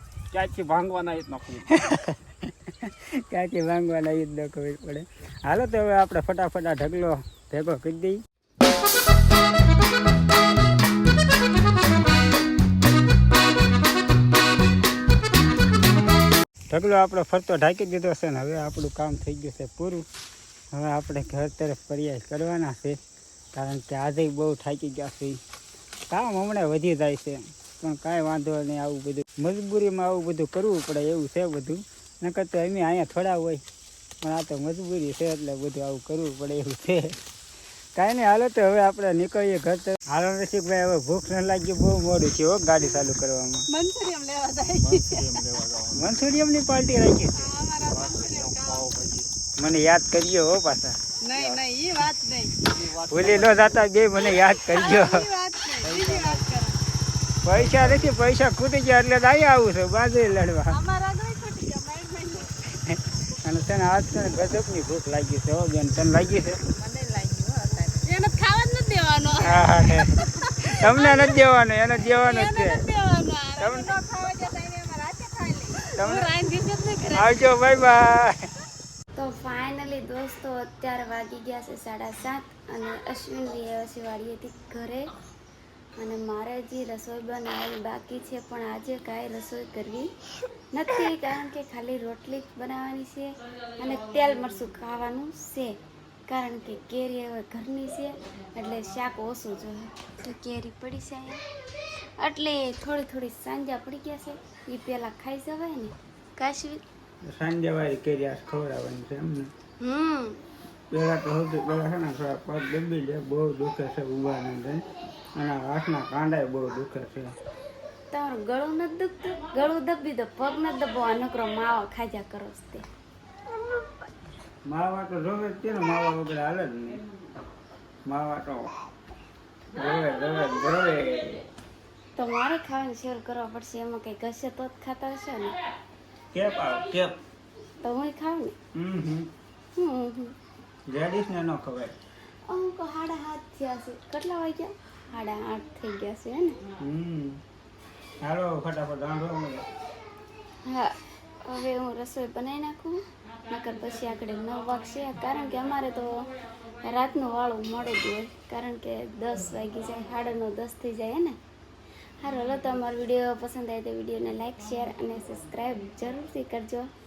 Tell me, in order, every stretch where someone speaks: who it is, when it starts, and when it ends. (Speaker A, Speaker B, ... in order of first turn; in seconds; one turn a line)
Speaker A: 0.3-1.7
Speaker B: 1.7-8.2
Speaker B: 16.7-20.1
Speaker B: 20.7-23.0
Speaker B: 23.5-25.4
Speaker B: 26.1-33.6
Speaker B: 34.2-37.2
Speaker B: 38.0-43.7
Speaker C: 43.7-45.4
Speaker A: 44.8-46.1
Speaker B: 45.9-47.5
Speaker C: 47.4-49.1
Speaker A: 47.8-49.3
Speaker B: 49.6-51.6
Speaker C: 51.2-52.7
Speaker A: 52.7-53.8
Speaker B: 53.1-55.3
Speaker C: 54.1-56.8
Speaker A: 55.8-56.5
Speaker B: 57.4-60.8
Speaker A: 57.5-58.1
Speaker C: 60.7-62.6
Speaker B: 62.7-66.6
Speaker C: 66.7-71.4
Speaker B: 69.4-72.8
Speaker C: 72.1-77.3
Speaker B: 73.6-73.9
Speaker B: 76.0-76.3
Speaker B: 77.1-78.5
Speaker D: 79.2-85.1
Speaker D: 86.0-90.1
Speaker D: 90.7-101.4
Speaker D: 102.2-106.8
Speaker B: 107.2-109.5
Speaker D: 109.8-110.4
Speaker B: 110.9-117.3
Speaker D: 118.1-122.8
Speaker B: 124.7-127.0
Speaker B: 128.1-128.7
Speaker B: 129.8-131.4
Speaker D: 132.2-135.6
Speaker B: 136.3-137.1
Speaker D: 137.8-138.6
Speaker B: 138.7-139.3
Speaker D: 139.8-140.4
Speaker B: 140.9-141.9
Speaker D: 142.5-146.6
Speaker B: 146.8-147.4
Speaker B: 148.2-149.6
Speaker D: 150.6-161.4
Speaker D: 162.2-166.9